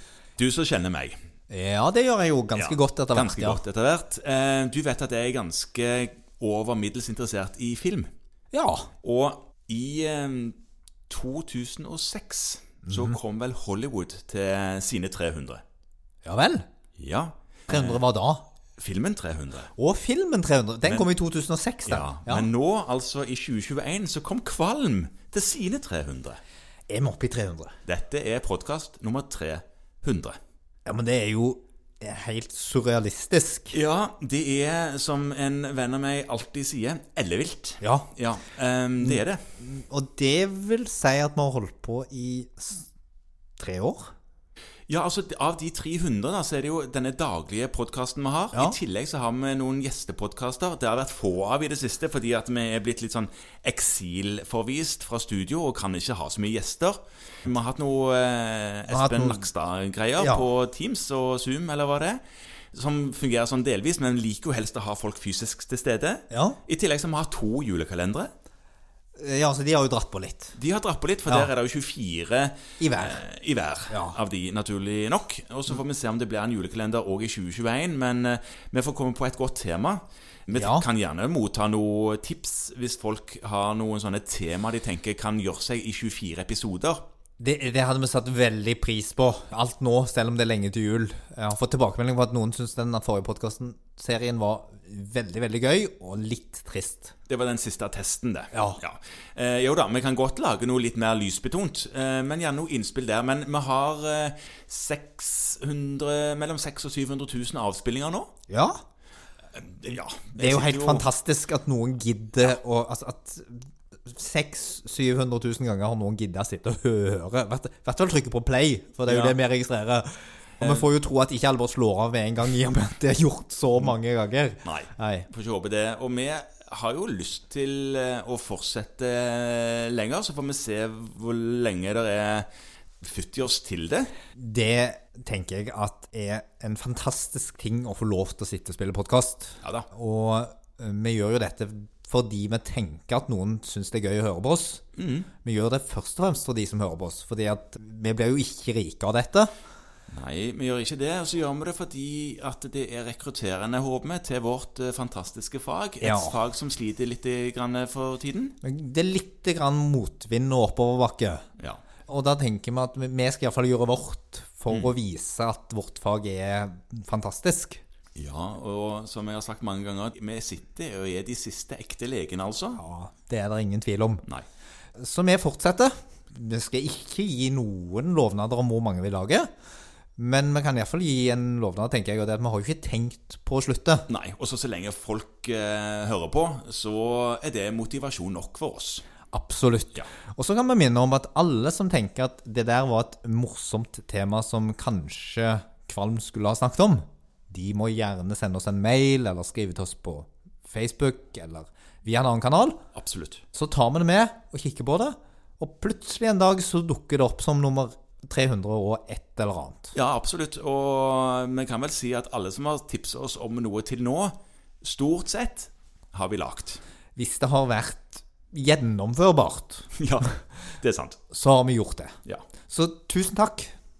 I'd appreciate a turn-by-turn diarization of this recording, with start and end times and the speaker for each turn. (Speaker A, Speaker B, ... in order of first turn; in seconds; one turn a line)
Speaker A: 0.4-1.1
Speaker B: 1.5-3.6
Speaker A: 2.5-8.1
Speaker B: 8.5-8.9
Speaker A: 9.0-10.6
Speaker A: 11.1-15.6
Speaker B: 12.9-13.2
Speaker B: 16.2-16.6
Speaker A: 17.0-18.0
Speaker B: 17.7-18.4
Speaker A: 18.8-19.7
Speaker B: 19.8-22.5
Speaker A: 21.9-26.4
Speaker B: 26.9-27.7
Speaker A: 27.8-30.4
Speaker B: 30.9-33.8
Speaker A: 33.7-39.4
Speaker B: 37.8-38.1
Speaker B: 39.1-42.9
Speaker B: 43.6-44.1
Speaker A: 44.9-62.2
Speaker B: 58.9-59.4
Speaker B: 60.2-60.5
Speaker A: 62.7-68.3
Speaker B: 66.3-66.6
Speaker B: 69.2-70.5
Speaker A: 70.5-87.0
Speaker B: 72.8-73.2
Speaker B: 73.9-74.2
Speaker B: 80.5-80.8
Speaker B: 87.4-97.1
Speaker A: 97.3-108.3
Speaker B: 98.5-98.8
Speaker B: 108.5-108.8
Speaker A: 109.5-111.1
Speaker B: 110.4-125.3
Speaker A: 119.0-119.4
Speaker A: 120.6-120.8
Speaker A: 124.6-132.5
Speaker A: 133.0-134.1
Speaker B: 134.3-144.8
Speaker A: 144.9-145.3
Speaker B: 145.4-149.5
Speaker A: 150.1-158.6
Speaker B: 156.0-156.3
Speaker B: 158.6-161.4
Speaker B: 162.1-167.8
Speaker A: 168.1-172.8
Speaker B: 172.8-174.2
Speaker B: 174.9-179.5
Speaker B: 180.2-184.1
Speaker A: 184.1-189.0
Speaker B: 189.3-202.8
Speaker A: 202.9-203.4
Speaker B: 203.5-209.9
Speaker A: 209.9-216.8
Speaker B: 217.2-219.9
Speaker A: 219.9-221.2
Speaker B: 221.3-222.1
Speaker B: 222.7-223.7